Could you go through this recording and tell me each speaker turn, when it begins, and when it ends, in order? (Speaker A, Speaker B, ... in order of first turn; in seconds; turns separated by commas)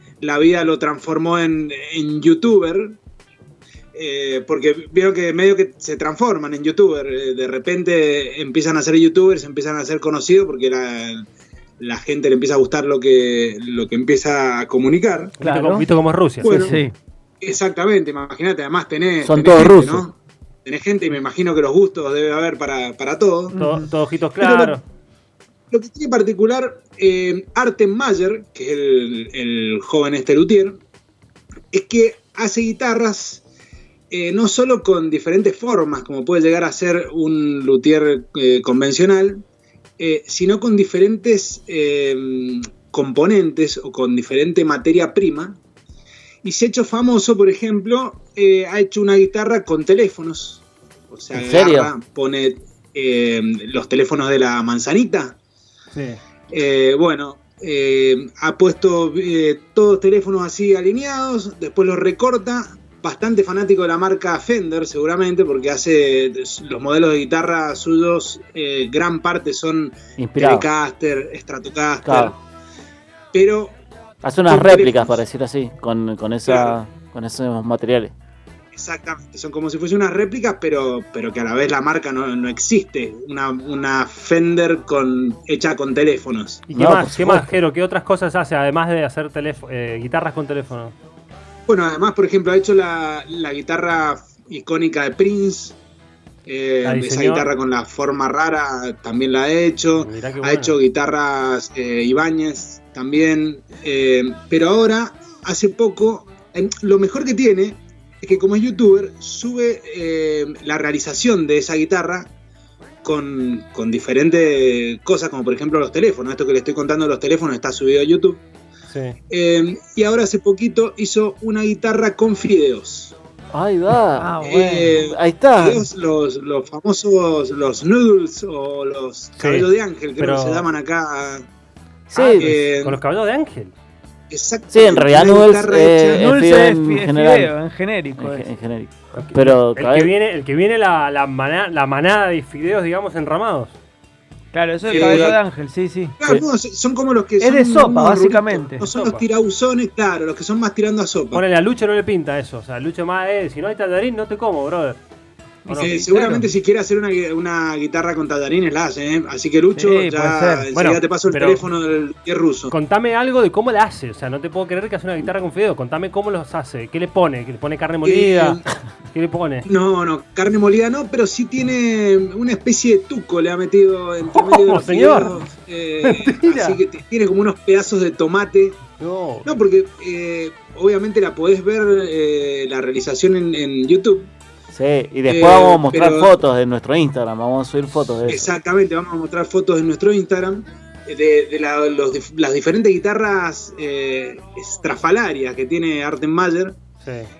Speaker A: 0.2-3.0, Speaker A: 3.9-11.2, Speaker A: 11.8-15.4, Speaker B: 15.4-16.7, Speaker C: 15.4-15.9, Speaker A: 16.4-16.8, Speaker C: 16.4-16.9, Speaker A: 17.4-23.6, Speaker D: 19.2-20.1, Speaker C: 23.5-23.9, Speaker B: 23.5-24.8, Speaker A: 24.4-24.8, Speaker A: 25.7-30.8, Speaker A: 31.7-33.4, Speaker A: 34.1-39.4, Speaker A: 40.0-45.6, Speaker A: 46.4-55.4, Speaker D: 51.3-51.9, Speaker B: 55.9-56.2, Speaker A: 56.5-72.3, Speaker D: 70.2-70.7, Speaker D: 72.0-72.3, Speaker A: 73.3-73.8, Speaker D: 74.2-78.1, Speaker A: 74.5-75.2, Speaker A: 76.5-76.8, Speaker A: 78.7-86.6, Speaker B: 86.7-90.9, Speaker D: 86.7-87.5, Speaker A: 91.7-95.8, Speaker A: 96.5-112.3, Speaker B: 96.8-97.5, Speaker B: 100.0-100.8, Speaker A: 113.0-118.4, Speaker B: 118.9-119.2, Speaker A: 119.3-123.1, Speaker D: 123.5-124.3, Speaker C: 124.1-125.1, Speaker A: 124.4-131.4, Speaker D: 125.0-125.8, Speaker B: 129.4-130.7, Speaker D: 132.1-132.5, Speaker A: 132.2-133.0, Speaker B: 132.3-133.7, Speaker A: 134.3-136.3, Speaker D: 134.7-137.5, Speaker C: 136.1-138.5, Speaker D: 138.2-140.1, Speaker B: 139.1-143.8, Speaker C: 144.5-146.2, Speaker A: 144.8-145.4, Speaker A: 146.2-151.4, Speaker C: 147.4-148.9, Speaker B: 148.9-149.2, Speaker B: 151.3-155.0, Speaker B: 155.7-156.5, Speaker A: 155.8-162.7, Speaker C: 159.7-160.7, Speaker B: 160.7-161.6, Speaker B: 162.7-169.7, Speaker A: 168.0-168.6, Speaker A: 169.7-178.8, Speaker B: 174.2-175.4, Speaker B: 176.0-176.8, Speaker B: 179.0-179.6, Speaker A: 179.4-184.3, Speaker D: 184.7-188.5, Speaker A: 185.3-186.3, Speaker A: 188.3-196.8, Speaker B: 197.0-197.3